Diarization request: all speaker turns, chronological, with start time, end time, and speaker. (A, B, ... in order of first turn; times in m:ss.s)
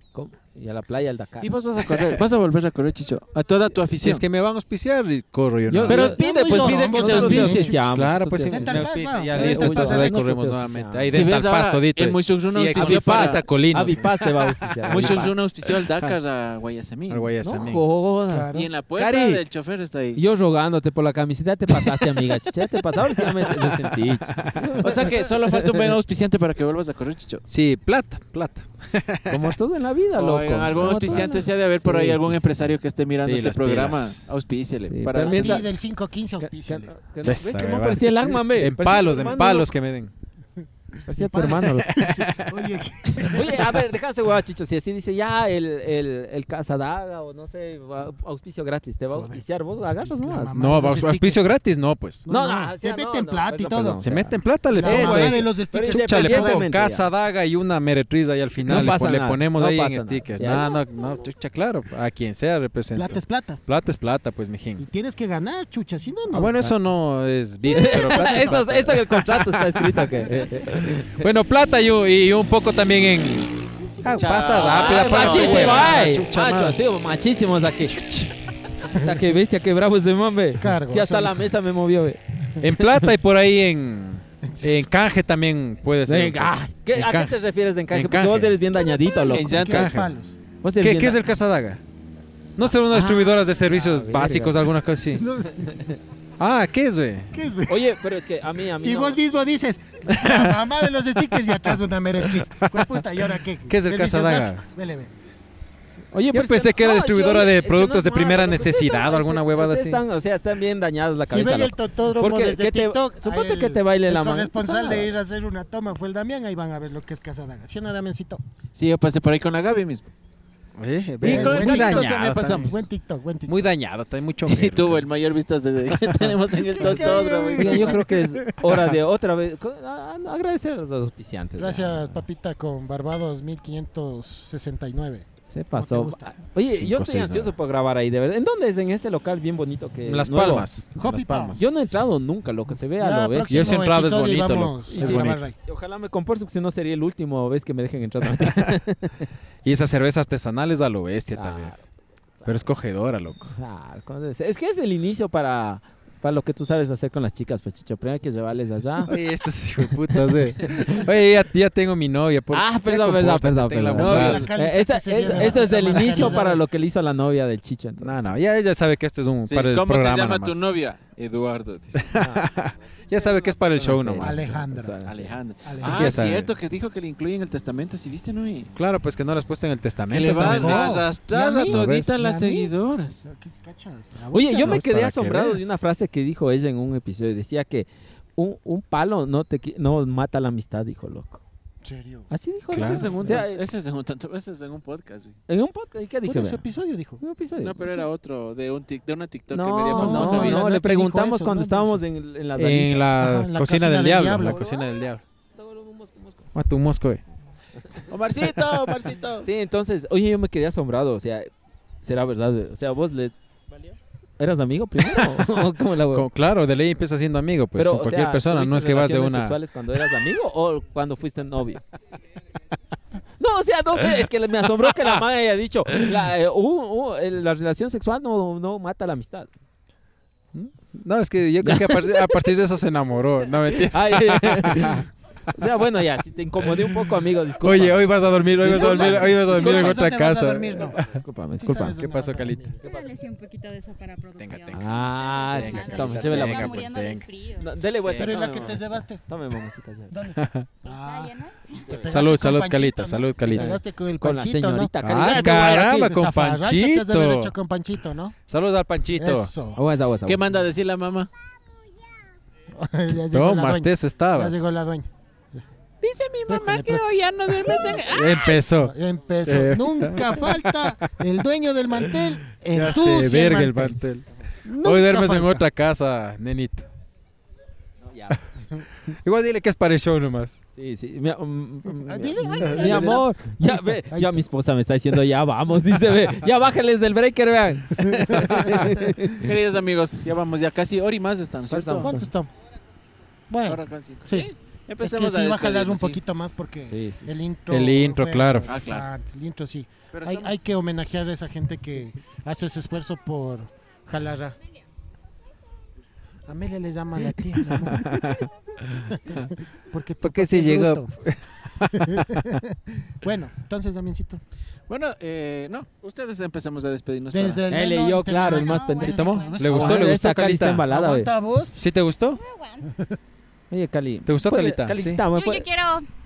0:00.1-0:01.5 A
0:01.4-0:04.2 B
0:03.9-0:06.2 C
0:05.7-0:11.1 A
0:05.9-0:07.7 B
0:05.9-0:07.9 D
0:07.0-0:15.3 C
0:08.4-0:10.3 D
0:11.1-0:13.4 B
0:12.7-0:15.4 A
0:14.9-0:17.3 B
0:17.1-0:17.8 C
0:17.4-0:19.1 A
0:18.3-0:18.7 D
0:18.5-0:20.2 B
0:19.0-0:19.4 C
0:20.1-0:25.2 A
0:23.5-0:25.0 C
0:24.8-0:27.4 B
0:27.5-0:29.5 C
0:29.3-0:32.7 A
0:30.2-0:35.6 B
0:30.8-0:31.2 C
0:33.2-0:34.3 C
0:34.9-0:35.6 A
0:35.1-0:37.0 D
0:36.4-0:39.7 A
0:37.2-0:40.1 C
0:41.1-0:41.9 A
0:41.2-0:43.6 D
0:41.9-0:42.6 C
0:43.2-0:50.6 A
0:49.1-0:49.4 D
0:50.0-0:51.6 D
0:50.5-0:52.2 C
0:52.2-0:56.7 D
0:52.3-0:57.1 A
0:54.0-1:04.8 C
0:58.6-1:00.7 A
1:02.9-1:03.6 D
1:04.8-1:06.7 D
1:06.3-1:10.0 C
1:07.7-1:11.2 A
1:07.7-1:08.6 D
1:11.0-1:16.8 C
1:14.1-1:15.9 B
1:14.6-1:18.0 A
1:15.2-1:16.1 D
1:17.8-1:18.3 C
1:18.9-1:22.2 A
1:20.6-1:21.5 D
1:22.6-1:27.3 C
1:22.8-1:23.1 A
1:24.5-1:24.9 D
1:26.1-1:29.7 A
1:27.9-1:28.6 C
1:28.8-1:30.3 D
1:29.3-1:30.0 B
1:29.6-1:30.1 C
1:30.6-1:31.2 A
1:30.8-1:31.8 C
1:32.6-1:35.2 C
1:32.9-1:34.7 A
1:35.2-1:35.9 D
1:35.6-1:36.0 A
1:36.4-1:37.3 C
1:37.3-1:37.9 D
1:37.7-1:39.2 A
1:38.8-1:45.1 D
1:40.1-1:41.8 C
1:42.3-1:43.0 C
1:43.7-1:44.6 C
1:46.1-1:55.1 A
1:46.3-1:50.0 C
1:51.3-1:58.4 D
1:58.7-2:00.1 B
2:00.8-2:02.7 C
2:01.2-2:03.7 D
2:01.2-2:02.8 B
2:03.5-2:05.0 C
2:04.4-2:08.0 B
2:06.8-2:08.3 D
2:06.9-2:07.2 C
2:07.5-2:12.2 A
2:11.6-2:16.5 D
2:15.4-2:20.7 A
2:16.5-2:17.5 C
2:20.0-2:21.6 C
2:20.9-2:21.8 D
2:21.6-2:23.8 A
2:22.9-2:25.6 D
2:23.5-2:25.4 C
2:24.9-2:29.3 A
2:28.4-2:28.7 C
2:29.6-2:31.7 C
2:31.3-2:31.8 A
2:32.4-2:32.7 A
2:32.4-2:33.5 C
2:33.5-2:39.2 A
2:39.1-2:44.5 C
2:40.1-2:41.0 A
2:42.5-2:48.2 A
2:44.0-2:44.4 B
2:44.0-2:46.6 D
2:48.0-2:50.6 C
2:49.5-2:52.0 B
2:52.0-2:54.6 C
2:52.2-2:55.4 A
2:54.2-2:55.0 D
2:55.0-2:58.7 B
2:55.6-2:56.3 D
2:55.8-2:56.5 C
2:58.8-3:00.9 C
3:00.1-3:03.2 B
3:00.2-3:02.7 D
3:01.6-3:02.2 C
3:03.2-3:04.8 D
3:04.3-3:11.4 A
3:04.6-3:05.7 C
3:11.8-3:12.3 D
3:12.3-3:13.6 A
3:12.7-3:13.1 C
3:12.7-3:15.4 B
3:15.5-3:16.6 A
3:16.2-3:17.2 D
3:17.2-3:18.0 A
3:17.6-3:20.7 B
3:19.5-3:23.1 A
3:19.9-3:22.0 D
3:20.1-3:20.4 C
3:22.6-3:25.2 C
3:23.2-3:24.6 D
3:24.4-3:25.0 A
3:25.6-3:26.5 A
3:26.5-3:27.2 C
3:28.1-3:29.5 B
3:29.4-3:31.5 A
3:32.0-3:33.3 A
3:34.4-3:36.3 A
3:36.1-3:39.6 C
3:37.8-3:41.8 A
3:43.4-3:49.5 A
3:50.5-3:55.0 C
3:51.6-3:52.5 A
3:53.7-4:00.0 A
3:56.7-3:57.0 C
3:57.6-4:01.0 C
3:58.6-4:01.0 D
4:01.0-4:02.0 A
4:01.6-4:02.8 D
4:02.0-4:02.7 C
4:02.8-4:03.1 A
4:02.8-4:07.7 E
4:04.4-4:04.8 C
4:04.7-4:06.9 A
4:05.5-4:07.3 C
4:07.6-4:10.1 A
4:08.0-4:08.8 C
4:08.2-4:09.2 D
4:10.1-4:11.3 D
4:10.4-4:10.7 C
4:10.8-4:11.8 E
4:11.8-4:12.2 A
4:11.9-4:18.4 D
4:12.1-4:13.8 C
4:13.5-4:15.7 A
4:15.0-4:17.5 C
4:18.5-4:19.5 C
4:19.1-4:19.8 D
4:19.7-4:20.5 A
4:20.2-4:21.3 B
4:22.8-4:25.1 D
4:23.2-4:24.8 C
4:26.0-4:28.5 B
4:26.5-4:27.1 D
4:27.6-4:34.0 D
4:28.0-4:28.9 C
4:29.4-4:31.0 C
4:32.7-4:34.2 C
4:34.6-4:35.6 D
4:34.8-4:36.9 C
4:38.0-4:38.4 A
4:39.1-4:40.6 C
4:40.8-4:49.5 A
4:42.0-4:44.4 D
4:42.6-4:43.2 C
4:48.2-4:48.8 D
4:49.3-4:52.1 B
4:51.7-4:52.3 A
4:52.0-4:52.5 D
4:53.5-4:54.5 D
4:53.6-4:56.2 B
4:55.0-5:04.6 D
4:56.9-4:57.4 A
4:57.7-4:58.7 C
4:58.7-4:59.0 B
5:00.1-5:00.6 B
5:06.5-5:08.4 D
5:07.6-5:09.5 C
5:09.1-5:11.1 D
5:10.2-5:12.4 C
5:12.1-5:14.4 D
5:14.9-5:17.6 B
5:17.3-5:20.2 D
5:17.7-5:21.3 A
5:18.4-5:19.6 E
5:19.1-5:20.8 C
5:20.8-5:21.8 D
5:21.8-5:22.4 C
5:22.3-5:22.9 E
5:23.7-5:25.7 A
5:24.2-5:25.2 C
5:25.3-5:26.0 E